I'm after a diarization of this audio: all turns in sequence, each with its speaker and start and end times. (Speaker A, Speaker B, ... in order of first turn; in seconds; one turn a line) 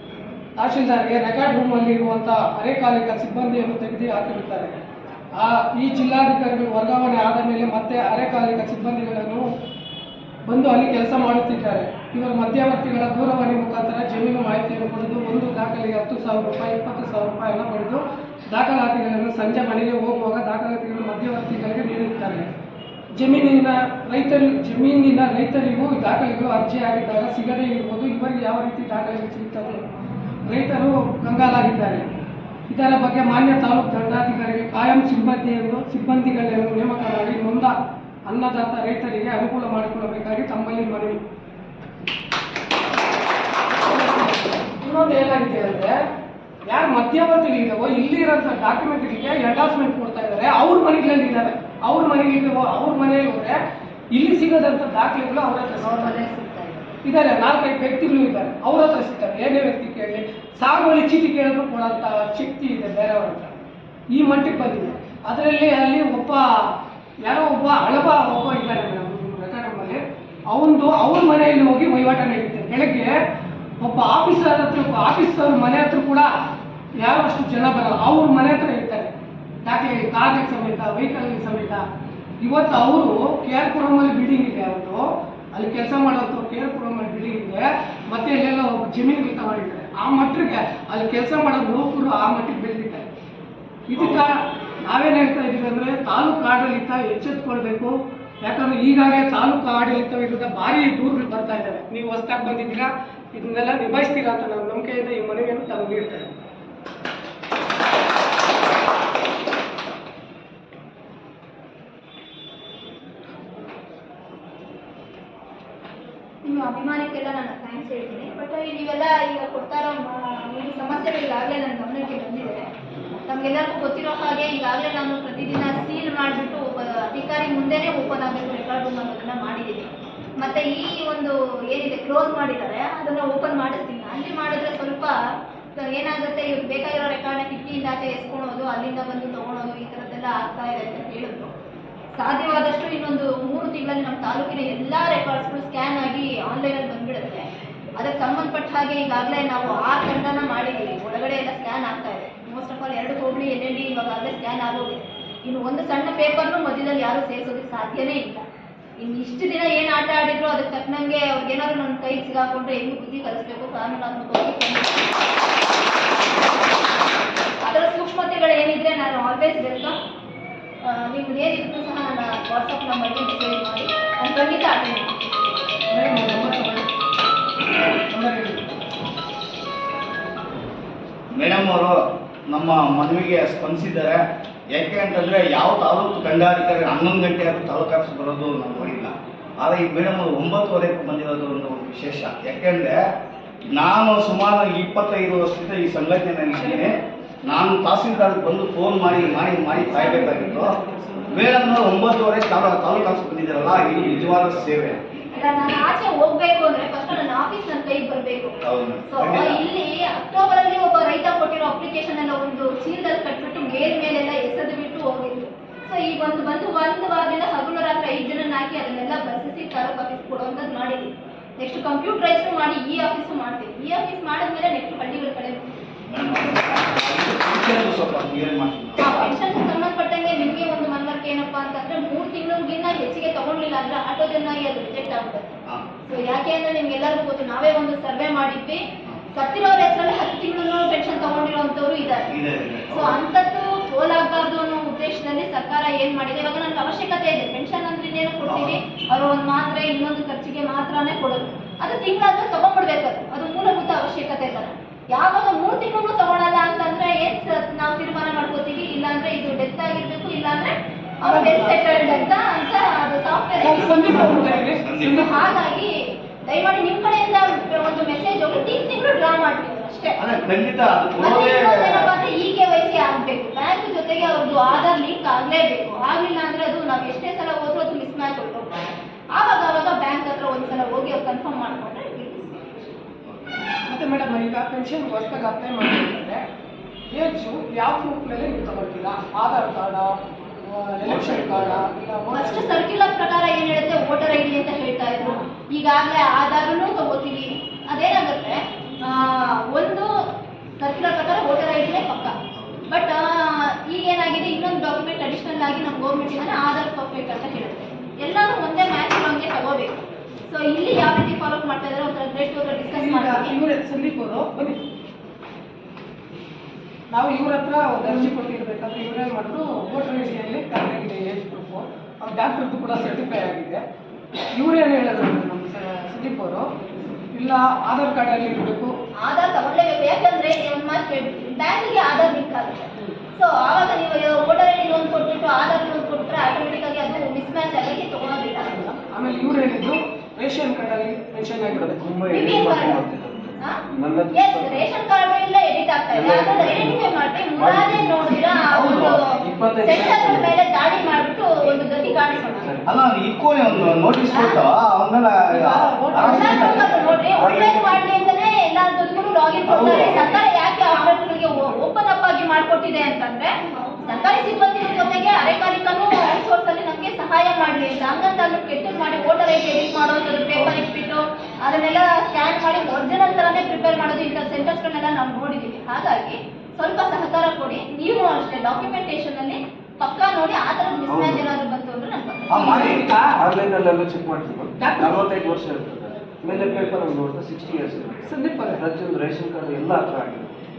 Speaker A: 0.6-4.8
Speaker A: 5.4-9.5
Speaker A: 10.4-22.5
Speaker A: 23.2-29.8
Speaker A: 30.5-32.1
Speaker A: 32.7-37.8
Speaker A: 38.3-41.2
Speaker A: 43.9-46.0
Speaker A: 46.7-53.6
Speaker A: 54.1-56.3
Speaker B: 55.8-56.8
Speaker A: 57.0-63.5
Speaker A: 64.1-73.2
Speaker A: 73.8-76.3
Speaker A: 77.0-79.1
Speaker A: 79.6-81.8
Speaker A: 82.4-93.1
Speaker A: 93.9-106.3
Speaker B: 116.5-122.7
Speaker B: 123.3-135.2
Speaker B: 135.8-141.5
Speaker B: 142.2-147.4
Speaker B: 148.0-158.4
Speaker B: 159.0-165.1
Speaker B: 167.6-170.0
Speaker B: 170.8-175.2
Speaker A: 175.9-176.9
Speaker A: 178.1-178.6
Speaker C: 181.3-182.0
Speaker C: 182.5-193.0
Speaker C: 193.7-196.9
Speaker A: 196.6-196.9
Speaker C: 197.5-200.8
Speaker A: 199.9-201.5
Speaker C: 201.3-205.0
Speaker B: 205.3-225.7
Speaker C: 208.6-209.6
Speaker C: 226.1-229.3
Speaker B: 229.0-235.6
Speaker B: 236.1-238.8
Speaker B: 239.3-242.3
Speaker C: 242.3-243.2
Speaker B: 242.9-270.2
Speaker C: 248.4-248.8
Speaker A: 261.2-262.3
Speaker A: 263.6-265.4
Speaker C: 264.8-265.3
Speaker C: 270.2-272.1
Speaker B: 271.2-282.9
Speaker A: 283.9-286.4
Speaker A: 287.1-292.9
Speaker C: 291.1-291.7
Speaker B: 292.3-300.1
Speaker B: 300.8-302.4
Speaker B: 302.9-309.9
Speaker B: 310.5-313.6
Speaker A: 312.9-314.8
Speaker A: 317.1-323.8
Speaker A: 324.5-326.7
Speaker A: 327.3-328.9
Speaker B: 329.2-338.9
Speaker A: 338.8-342.2
Speaker D: 341.8-344.9
Speaker B: 342.3-343.1
Speaker B: 344.3-352.7
Speaker D: 346.1-347.0
Speaker D: 347.6-348.2
Speaker C: 348.7-349.2
Speaker D: 349.4-350.5
Speaker D: 352.6-352.9
Speaker C: 352.9-356.9
Speaker B: 354.3-354.6
Speaker A: 355.5-357.7
Speaker B: 356.2-382.9
Speaker C: 359.7-360.4
Speaker D: 381.1-381.4
Speaker C: 382.5-383.1
Speaker A: 382.5-383.4
Speaker D: 383.2-388.2
Speaker A: 384.8-385.3
Speaker A: 388.2-388.8
Speaker D: 388.7-390.5